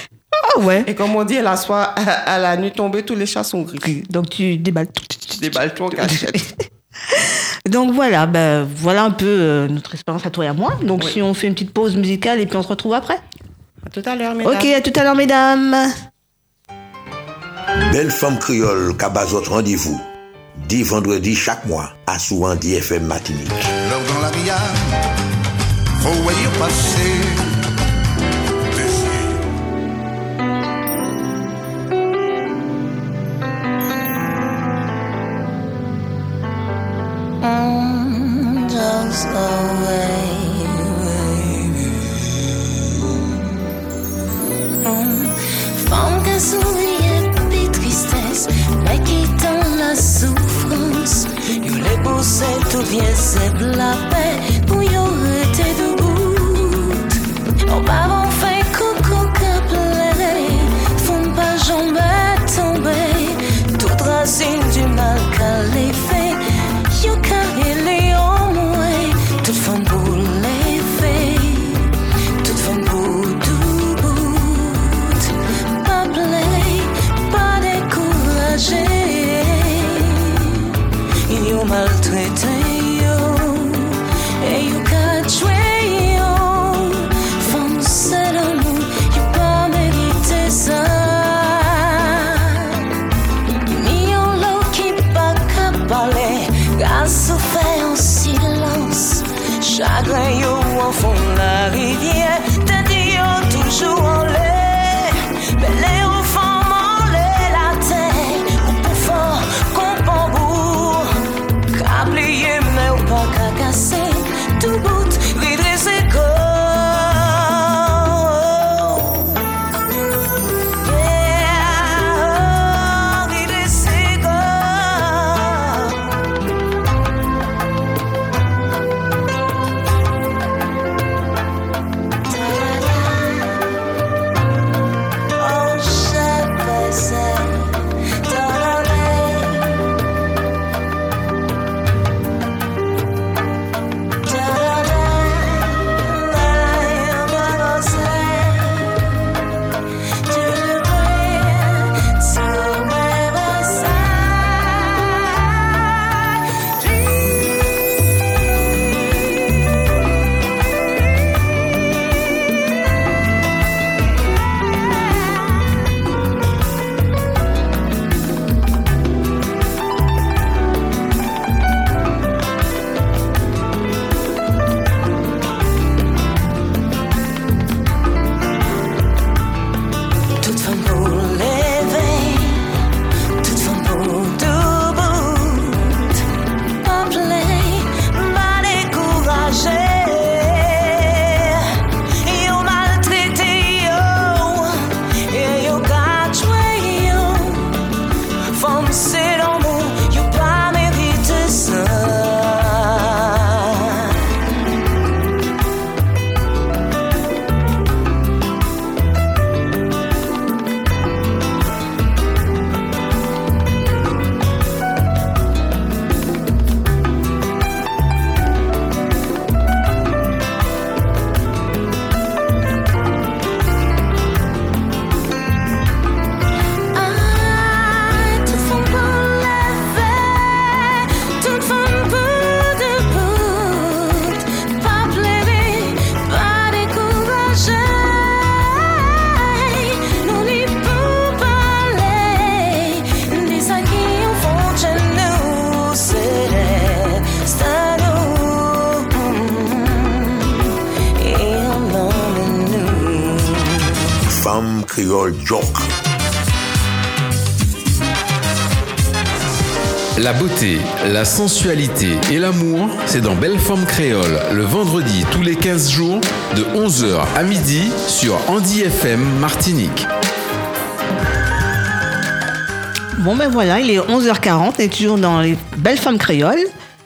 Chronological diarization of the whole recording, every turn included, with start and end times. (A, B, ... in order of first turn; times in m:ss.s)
0:00.4-0:00.9 A
0:00.8-0:03.9 B
0:03.8-0:06.6 A
0:05.3-0:06.5 B
0:07.1-0:13.2 A
0:13.8-0:14.8 B
0:14.4-0:15.9 A
0:17.8-0:20.0 C
0:20.6-0:24.3 C
0:23.9-0:24.9 D
0:26.0-0:27.4 D
0:26.3-0:26.6 C
0:28.8-0:29.1 D
0:37.4-0:42.0 E
0:44.8-1:32.8 E
1:33.6-1:59.6 E
2:00.8-2:06.2 E
2:12.3-2:13.8 E
2:15.4-2:19.9 E
2:24.2-2:29.2 E
2:30.2-2:37.5 E
3:00.4-3:02.7 E
3:03.4-3:06.2 E
3:06.8-3:17.8 E
3:18.5-3:24.1 E
3:46.9-4:13.8 E
4:14.2-4:15.9 C
4:20.2-4:30.1 F
4:33.2-4:36.7 A